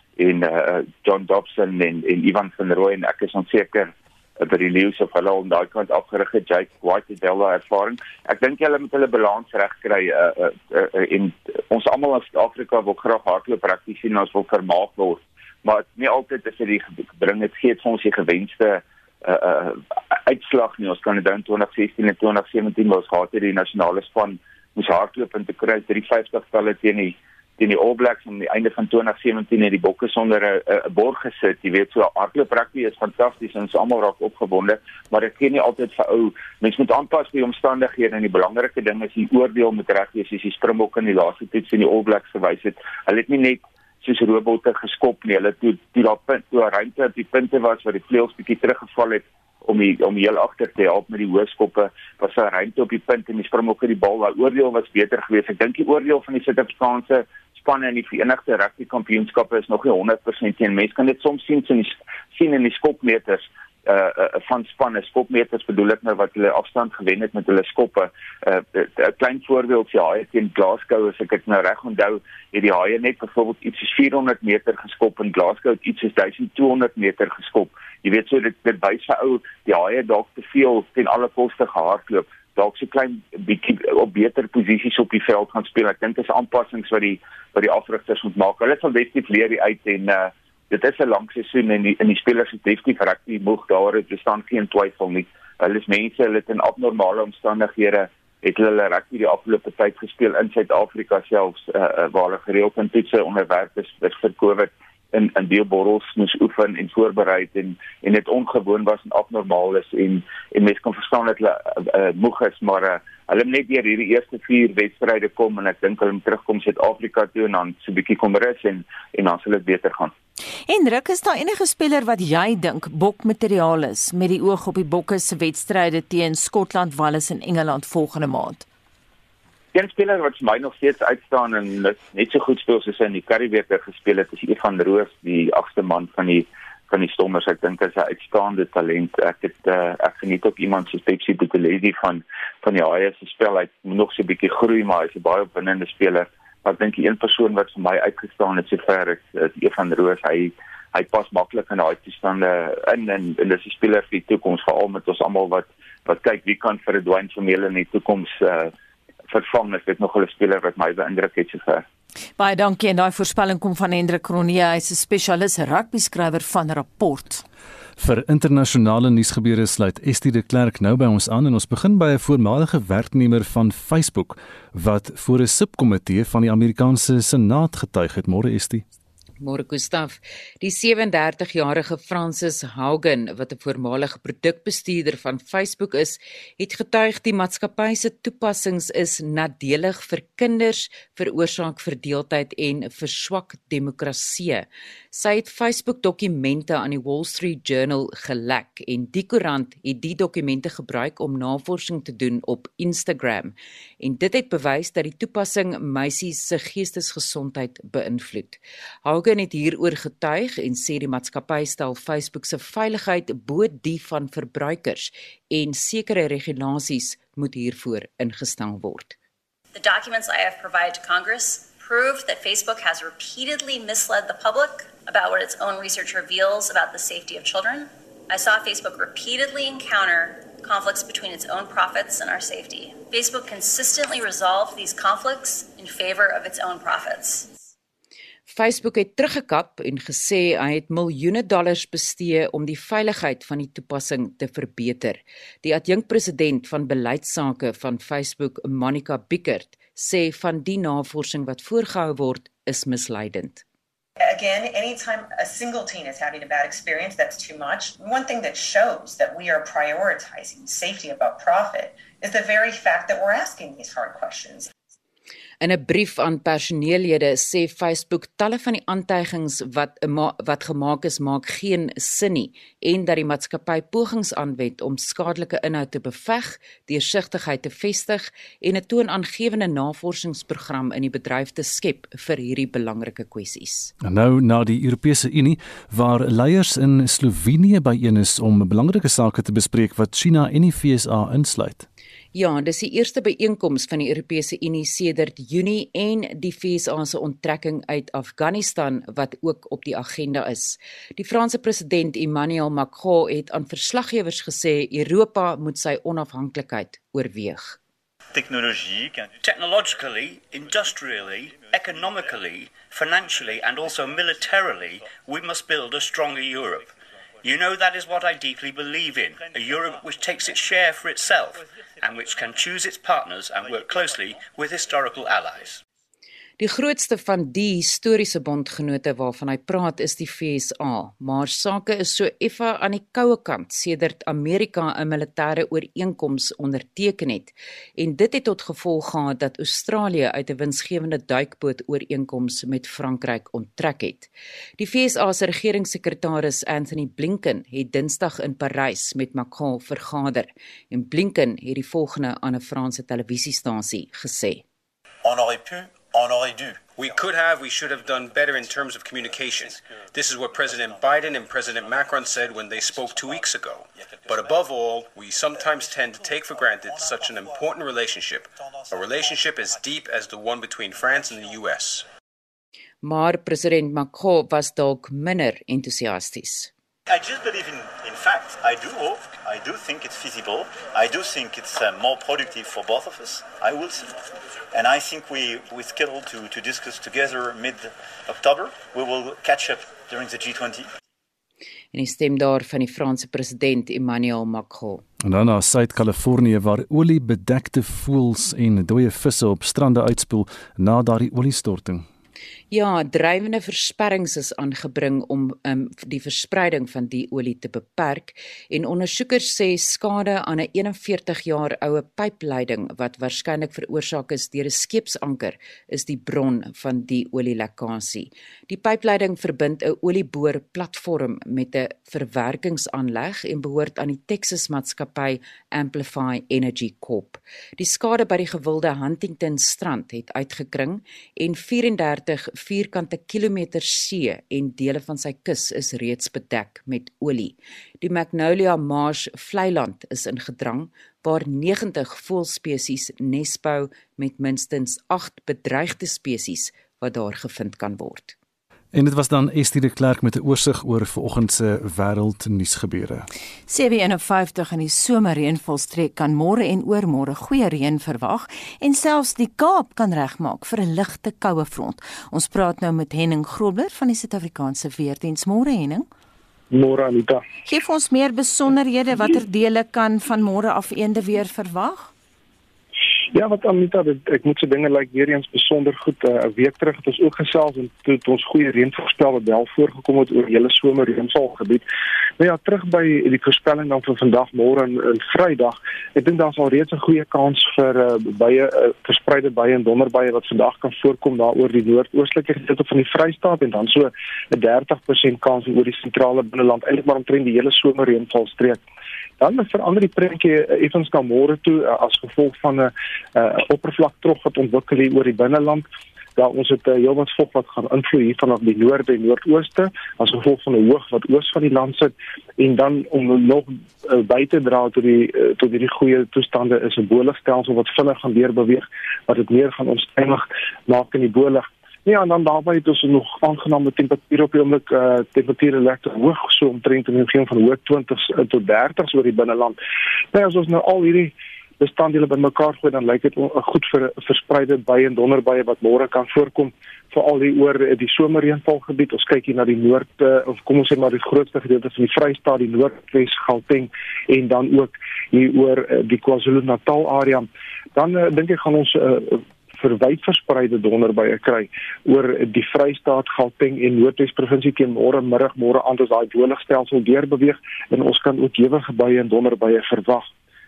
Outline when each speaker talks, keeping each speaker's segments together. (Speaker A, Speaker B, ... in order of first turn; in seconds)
Speaker A: 0.2-120.1, 129.7-158.7, 159.3-161.8
Speaker B: 120.7-128.7, 162.4-167.4, 453.7-466.1, 467.6-472.1
Speaker C: 168.0-178.8, 284.0-291.9, 395.2-402.1, 448.9-453.3
Speaker D: 179.4-219.2, 238.5-253.6, 265.6-283.9, 292.3-307.8, 326.6-354.6, 373.0-376.7, 391.9-395.0, 402.7-448.4
Speaker E: 219.7-237.5
Speaker F: 254.2-264.7
Speaker G: 308.3-325.8, 355.2-356.9, 377.1-390.9
Speaker H: 357.0-372.1
Speaker I: 466.7-467.4, 473.3-481.9, 482.4-498.8, 499.4-505.8, 506.4-529.8, 530.3-560.3